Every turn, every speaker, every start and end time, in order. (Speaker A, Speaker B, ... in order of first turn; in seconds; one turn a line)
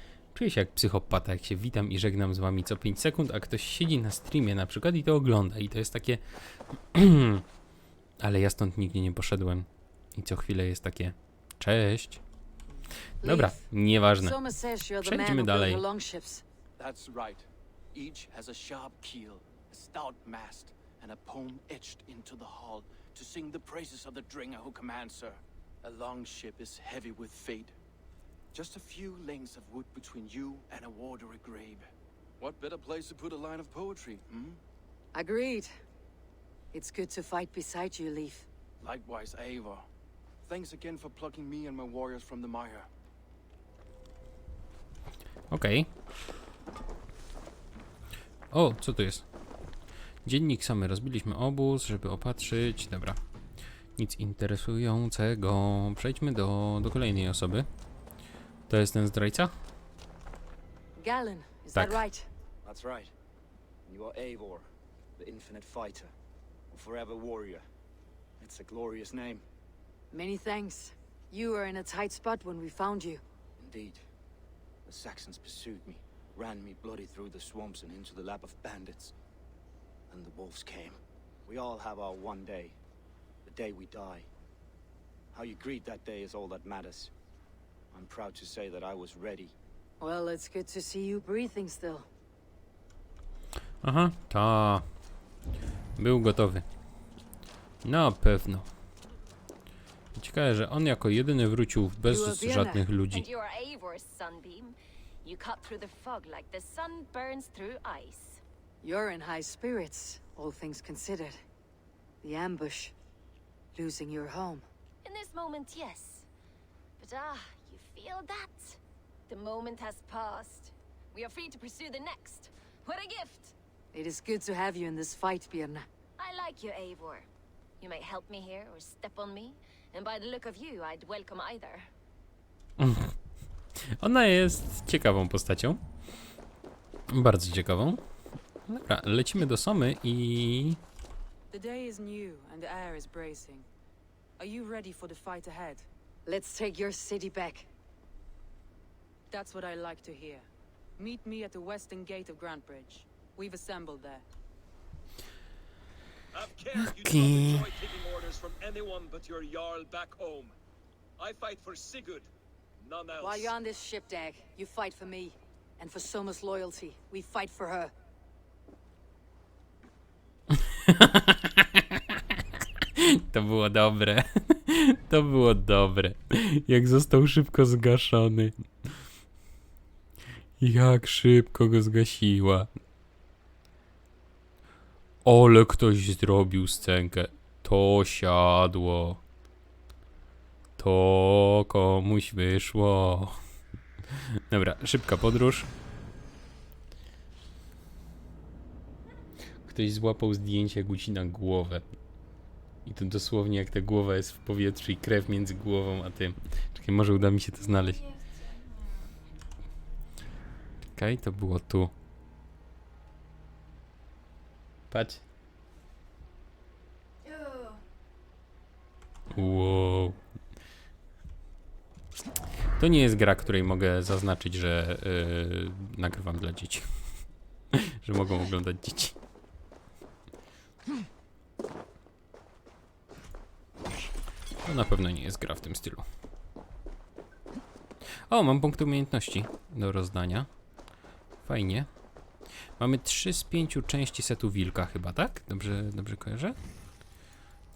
Speaker A: 0.3-7.4
Speaker A: 8.2-12.2
Speaker A: 13.2-14.4
Speaker B: 13.2-13.7
Speaker B: 14.2-16.4
Speaker A: 15.0-15.8
Speaker C: 16.8-27.7
Speaker C: 28.5-31.9
Speaker C: 32.4-34.6
Speaker B: 35.1-35.7
Speaker B: 36.7-38.5
Speaker C: 38.8-39.9
Speaker C: 40.4-42.9
Speaker A: 45.5-45.9
Speaker A: 48.5-49.2
Speaker A: 50.2-53.2
Speaker A: 54.0-57.7
Speaker A: 58.7-59.5
Speaker B: 61.0-62.3
Speaker A: 61.7-62.0
Speaker D: 62.6-63.1
Speaker D: 63.9-66.1
Speaker D: 66.7-67.6
Speaker D: 68.4-69.4
Speaker B: 70.1-73.2
Speaker D: 73.6-74.0
Speaker D: 74.8-79.1
Speaker D: 80.1-82.8
Speaker D: 83.4-84.3
Speaker D: 85.3-87.1
Speaker D: 87.9-89.5
Speaker B: 90.0-92.1
Speaker A: 93.8-94.8
Speaker A: 96.0-96.6
Speaker A: 97.8-98.7
Speaker A: 100.1-103.3
Speaker B: 102.0-102.9
Speaker E: 103.1-108.4
Speaker B: 108.8-111.4
Speaker B: 112.2-112.9
Speaker B: 113.7-114.7
Speaker E: 115.0-116.3
Speaker E: 117.0-123.5
Speaker B: 123.9-125.8
Speaker E: 126.2-127.3
Speaker E: 127.8-131.9
Speaker A: 132.8-133.1
Speaker A: 134.0-135.8
Speaker A: 137.1-138.0
Speaker A: 138.7-140.8
Speaker F: 141.5-143.7
Speaker F: 144.4-145.8
Speaker B: 146.2-147.7
Speaker F: 149.3-150.5
Speaker F: 151.0-154.2
Speaker A: 156.8-157.7
Speaker G: 157.9-160.5
Speaker G: 161.2-162.3
Speaker G: 162.9-163.4
Speaker B: 163.2-167.9
Speaker A: 170.7-172.4
Speaker A: 173.0-178.5
Speaker A: 180.6-182.7
Speaker A: 185.2-189.2
Speaker A: 190.8-193.3
Speaker A: 194.5-195.7
Speaker A: 199.6-201.8
Speaker A: 202.8-208.2
Speaker A: 210.9-211.9
Speaker A: 214.9-215.2
Speaker A: 219.3-220.2
Speaker A: 222.8-226.9
Speaker A: 227.7-229.1
Speaker A: 234.6-236.0
Speaker A: 238.3-240.5
Speaker A: 241.4-241.9
Speaker A: 242.8-246.6